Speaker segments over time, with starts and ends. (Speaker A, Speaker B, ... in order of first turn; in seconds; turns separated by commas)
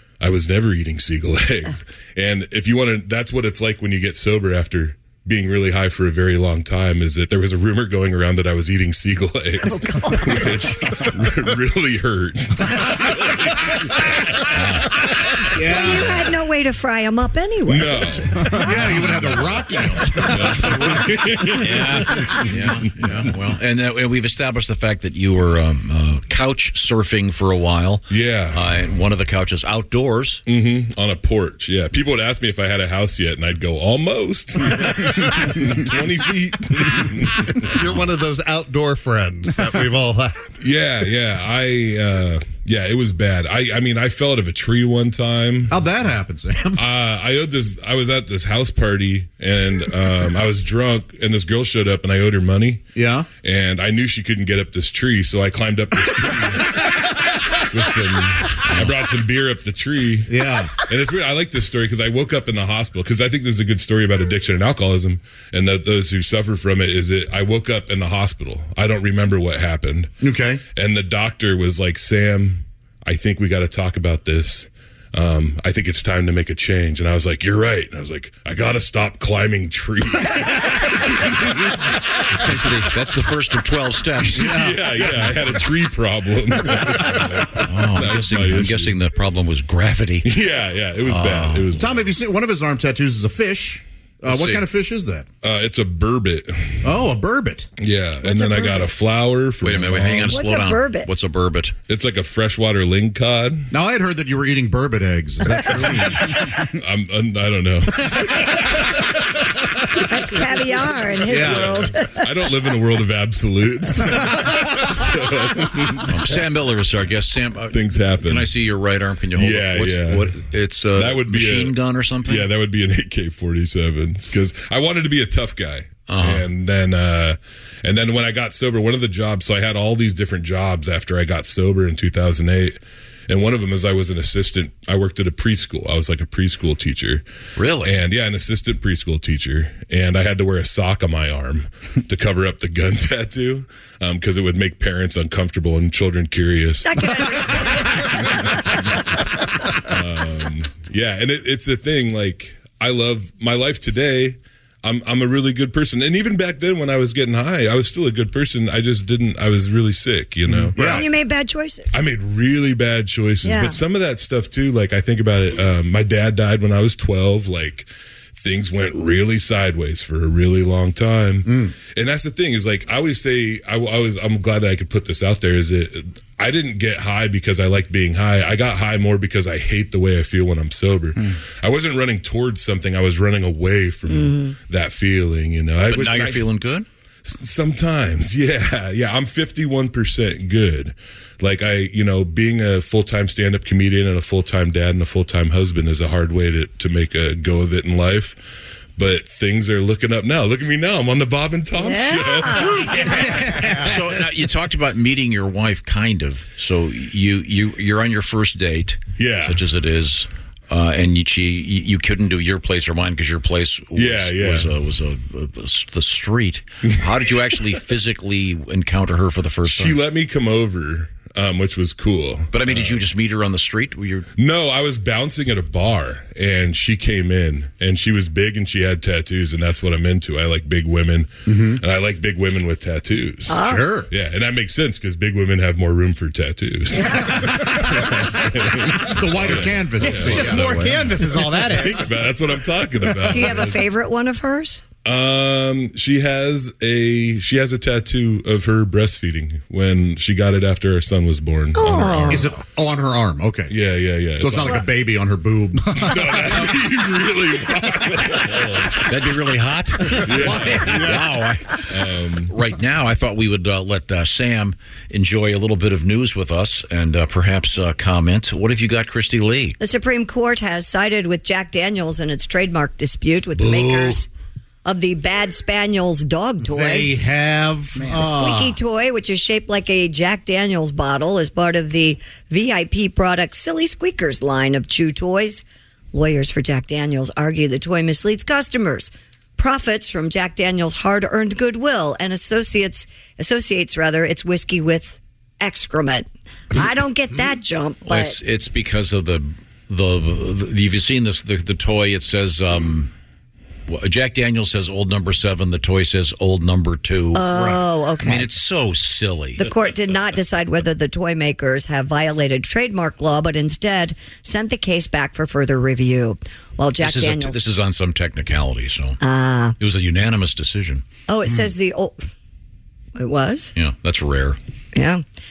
Speaker A: 0.2-16.0, Speaker B: 9.6-10.7, Speaker C: 14.5-14.9, Speaker D: 15.5-16.2, Speaker B: 15.6-19.3, Speaker A: 17.7-18.6, Speaker D: 18.6-21.1, Speaker A: 20.1-22.8, Speaker C: 21.5-30.4, Speaker A: 28.1-28.6, Speaker A: 30.5-37.9, Speaker E: 37.6-40.5, Speaker A: 40.6-45.8, Speaker D: 45.7-46.9, Speaker A: 46.8-52.9, Speaker D: 53.0-53.3, Speaker A: 53.4-57.0, Speaker A: 57.6-70.1, Speaker D: 60.3-60.7, Speaker D: 70.2-70.6, Speaker A: 70.8-82.3, Speaker C: 82.3-84.6, Speaker D: 84.3-85.3, Speaker A: 84.3-89.0, Speaker C: 87.5-90.3, Speaker A: 90.2-92.1, Speaker C: 91.1-91.7, Speaker D: 91.8-95.3, Speaker C: 94.2-94.6, Speaker A: 95.4-96.8, Speaker D: 96.8-97.7, Speaker A: 97.8-100.4, Speaker B: 98.2-98.9, Speaker C: 99.6-101.8, Speaker B: 100.2-101.1, Speaker A: 101.9-103.7, Speaker D: 103.7-106.3, Speaker A: 106.0-108.9, Speaker B: 110.1-112.5, Speaker D: 111.3-111.8, Speaker A: 111.3-116.3, Speaker C: 116.0-122.5, Speaker A: 117.7-118.5, Speaker A: 119.3-120.4, Speaker A: 120.9-132.8, Speaker C: 126.1-126.5, Speaker A: 133.3-137.2, Speaker C: 137.6-137.9, Speaker A: 137.8-149.0, Speaker B: 146.8-149.0, Speaker A: 149.8-160.8, Speaker D: 160.5-161.1, Speaker B: 160.8-162.0, Speaker A: 161.9-186.5, Speaker B: 163.4-163.8, Speaker D: 171.5-171.7, Speaker B: 184.1-184.6, Speaker C: 185.9-186.9, Speaker A: 187.2-198.4, Speaker A: 199.0-203.8, Speaker B: 201.7-203.4, Speaker C: 203.7-220.0, Speaker A: 209.2-209.6, Speaker A: 213.9-214.7, Speaker A: 219.6-223.1, Speaker C: 222.5-224.3, Speaker A: 224.4-240.8, Speaker D: 231.5-231.8, Speaker B: 233.5-234.0, Speaker D: 233.5-234.1, Speaker B: 236.9-237.7, Speaker D: 237.3-238.1, Speaker D: 239.0-240.9, Speaker F: 240.0-242.1, Speaker C: 240.3-241.0, Speaker A: 241.5-243.9, Speaker B: 243.2-244.8, Speaker A: 245.0-252.5, Speaker B: 251.7-252.5, Speaker D: 252.3-253.8, Speaker A: 253.7-254.9, Speaker D: 254.4-256.4, Speaker A: 255.9-259.1, Speaker C: 259.0-261.6, Speaker A: 260.1-262.5, Speaker D: 260.3-261.2, Speaker C: 262.5-269.8, Speaker B: 269.8-274.3, Speaker D: 273.7-274.1, Speaker B: 274.9-277.1, Speaker D: 276.6-278.8, Speaker B: 278.1-298.4, Speaker C: 298.0-303.1, Speaker C: 303.9-309.7, Speaker B: 307.3-308.5, Speaker D: 307.5-307.8, Speaker B: 309.6-317.6, Speaker C: 317.0-319.2, Speaker B: 319.2-319.8, Speaker C: 319.8-321.0, Speaker B: 321.3-322.2, Speaker B: 323.2-323.7, Speaker C: 323.8-324.6, Speaker B: 324.9-325.2